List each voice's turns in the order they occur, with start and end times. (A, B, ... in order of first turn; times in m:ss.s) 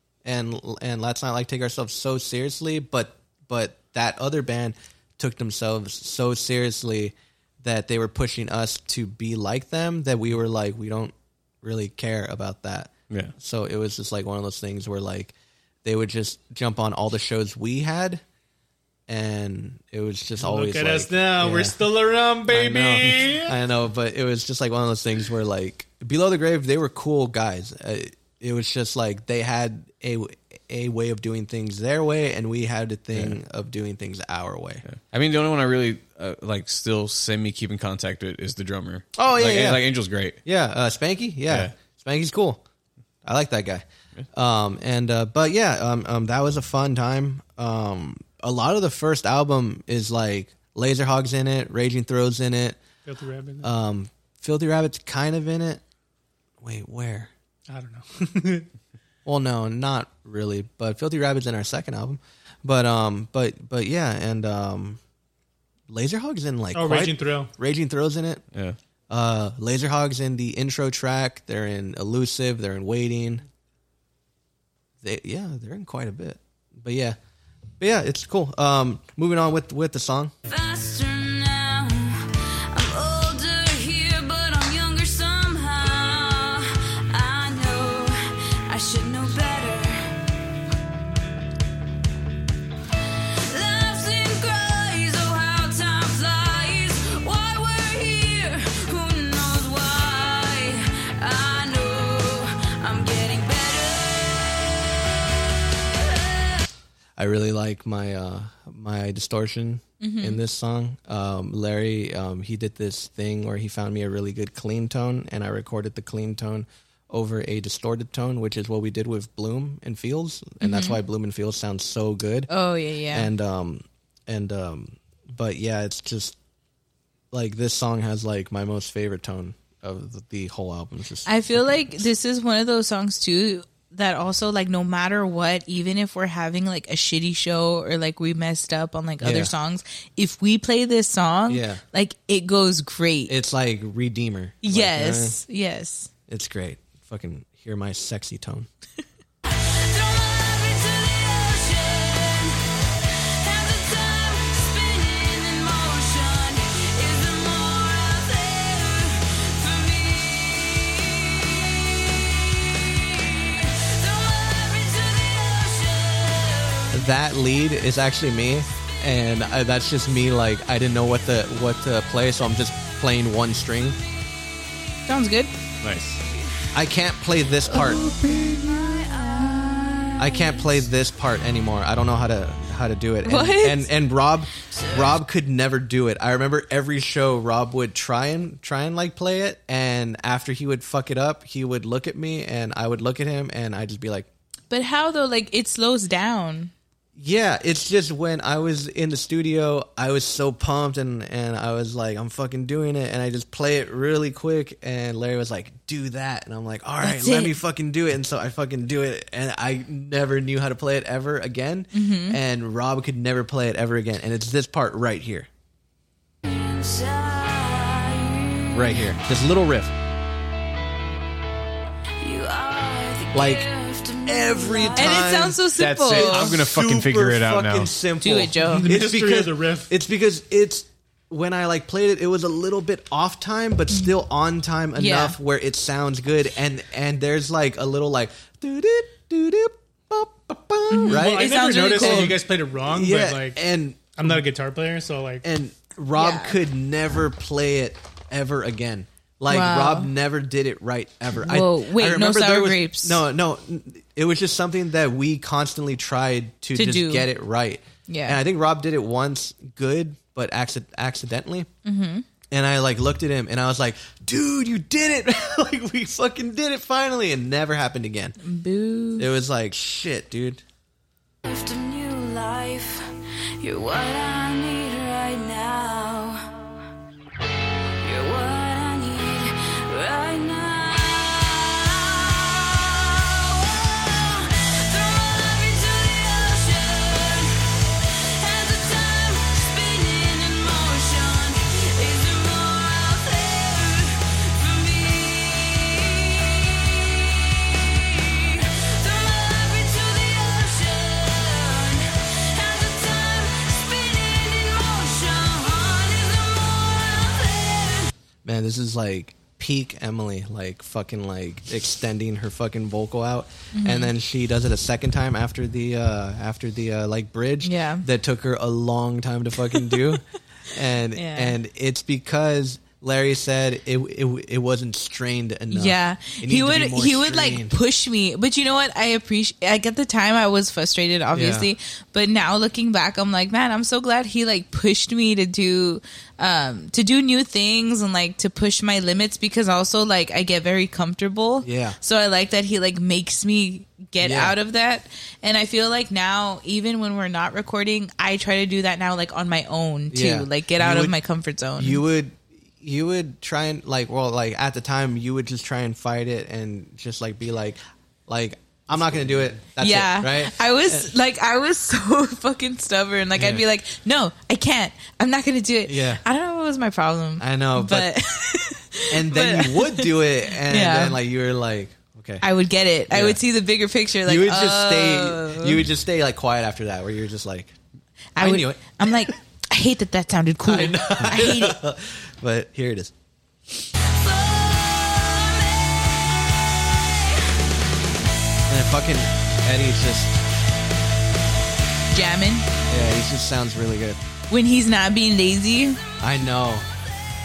0:00.2-0:15.3 A
0:15.8-0:18.2 A
0:19.1-0:21.8 A
0:20.4-0:23.6 B
0:22.5-0:34.8 A
0:34.8-0:40.4 C
0:39.2-0:39.8 A
0:40.4-0:42.6 A
0:43.2-0:52.8 A
0:53.0-0:53.7 B
0:53.6-0:55.8 A
0:56.6-0:57.3 A
0:57.7-0:58.7 B
0:59.2-1:05.0 A
1:05.9-1:08.4 A
1:06.7-1:07.5 B
1:09.1-1:13.4 A
1:15.0-1:17.2 A
1:17.8-1:20.3 A
1:20.5-1:30.1 D
1:33.4-1:45.1 D
1:45.9-1:46.6 D
1:47.2-2:02.5 A
1:50.0-1:50.4 E
2:00.6-2:01.0 E
2:02.5-2:03.3 E
2:03.1-2:06.4 A
2:07.3-2:12.0 A
2:11.2-2:23.3 E
2:19.2-2:19.5 A
2:21.5-2:21.8 A
2:23.3-2:25.4 A
2:24.6-2:26.1 E
2:26.3-2:28.7 A
2:29.5-2:47.0 D
2:46.9-2:54.0 A
2:55.1-2:55.5 E
2:55.8-2:56.2 C
2:56.7-2:58.0 A
2:57.7-3:00.8 D
3:00.2-3:14.3 A
3:03.2-3:03.9 E
3:04.7-3:05.1 D
3:14.7-3:16.7 E
3:17.2-3:35.5 A
3:27.0-3:27.6 E
3:31.9-3:32.4 E
3:36.4-3:39.1 D
3:38.7-3:39.9 A
3:42.2-3:45.1 D
3:43.3-3:43.6 A
3:44.2-4:04.4 A
3:45.0-3:46.5 E
3:45.8-3:47.9 C
3:48.2-3:48.9 E
3:48.6-3:49.9 B
3:55.0-3:55.4 E
4:00.9-4:02.4 E
4:01.1-4:03.6 B
4:04.2-4:05.4 B
4:05.4-4:21.7 A
4:06.1-4:06.6 E
4:09.5-4:10.1 E
4:11.4-4:13.2 E
4:16.7-4:17.3 E
4:18.1-4:18.4 E
4:21.8-4:22.2 E
4:22.5-4:28.4 A
4:28.4-4:29.3 E
4:29.2-4:30.6 A
4:31.4-4:36.7 D
4:38.0-5:08.1 D
5:08.4-5:27.8 A
5:13.7-5:14.1 E
5:17.6-5:18.0 E
5:21.1-5:21.6 E
5:25.7-5:52.0 E
5:31.3-5:31.7 A
5:41.6-5:42.0 A
5:44.2-5:44.5 A
5:50.1-5:51.2 A
5:51.8-6:01.1 A
5:59.8-6:11.2 E
6:03.4-6:03.6 A
6:05.8-6:06.2 A
6:07.4-6:08.1 A
6:09.1-6:12.4 A
6:12.4-6:15.8 E
6:13.1-6:13.4 A
6:14.2-6:17.7 A
6:18.4-6:21.8 E
6:18.4-6:19.3 A
6:20.6-6:23.1 A
6:24.0-6:27.5 D
6:28.7-6:30.4 A
6:32.1-6:32.7 E
6:32.9-6:34.2 A
6:34.5-6:36.0 E
6:36.2-6:36.9 A